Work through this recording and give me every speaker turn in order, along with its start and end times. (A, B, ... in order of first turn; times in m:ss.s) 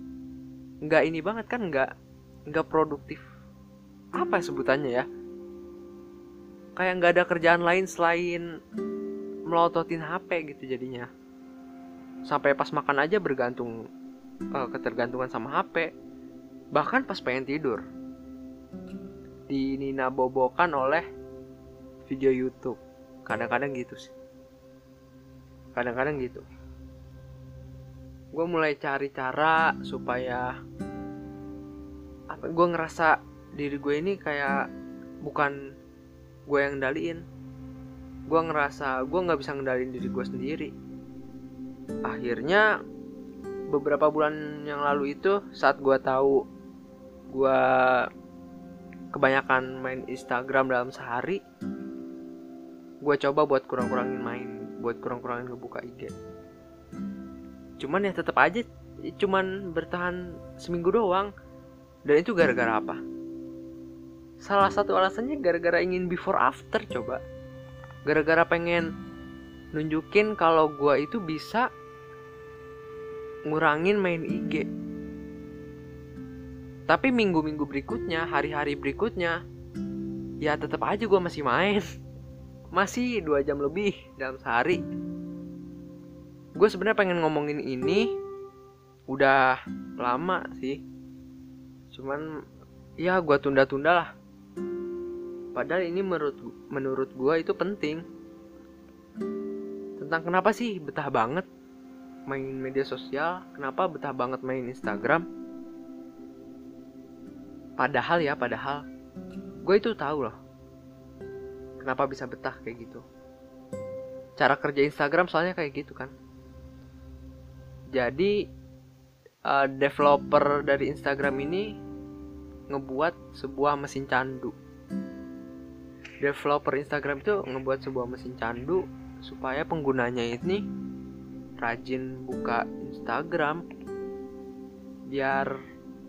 0:00.9-0:01.9 A
0:02.5-0:03.2 A
0:04.2-0:05.0 A
0:06.8-0:08.4 A
0:09.5-0:11.1 A
0:12.3-0:13.8 A
0:14.6-0:15.9 A
0:16.7-0:17.8 A
0:19.5-0:21.0 A
0:22.1-0:24.1 A
0:25.7-0:26.4 A
0:28.3-0:30.5 A
0:32.3-0:34.6 A
0:35.2-0:35.5 A
0:36.5-0:37.2 A
0:38.3-0:40.7 A
0:42.1-0:42.6 A
0:43.7-0:46.4 A
0:47.3-0:48.0 A
0:49.1-0:51.4 A
0:53.0-0:56.1 A
0:57.8-1:01.3 A
1:02.0-1:03.0 A
1:04.4-1:07.2 A
1:08.1-1:08.9 A
1:09.7-1:11.6 A
1:13.5-1:14.6 A
1:16.9-1:19.4 A
1:20.4-1:21.8 A
1:22.7-1:24.8 A
1:26.6-1:28.0 A
1:29.1-1:30.8 A
1:31.9-1:32.2 A
1:33.0-1:34.1 A
1:35.5-1:38.0 A
1:40.0-1:41.4 A
1:42.3-1:45.2 A
1:47.8-1:48.8 A
1:49.6-1:50.3 A
1:51.8-1:53.0 A
1:54.4-1:56.1 A
1:57.9-1:58.3 A
1:59.5-2:01.6 A
2:02.7-2:04.5 A
2:06.2-2:10.6 A
2:11.6-2:13.6 A
2:15.1-2:15.5 A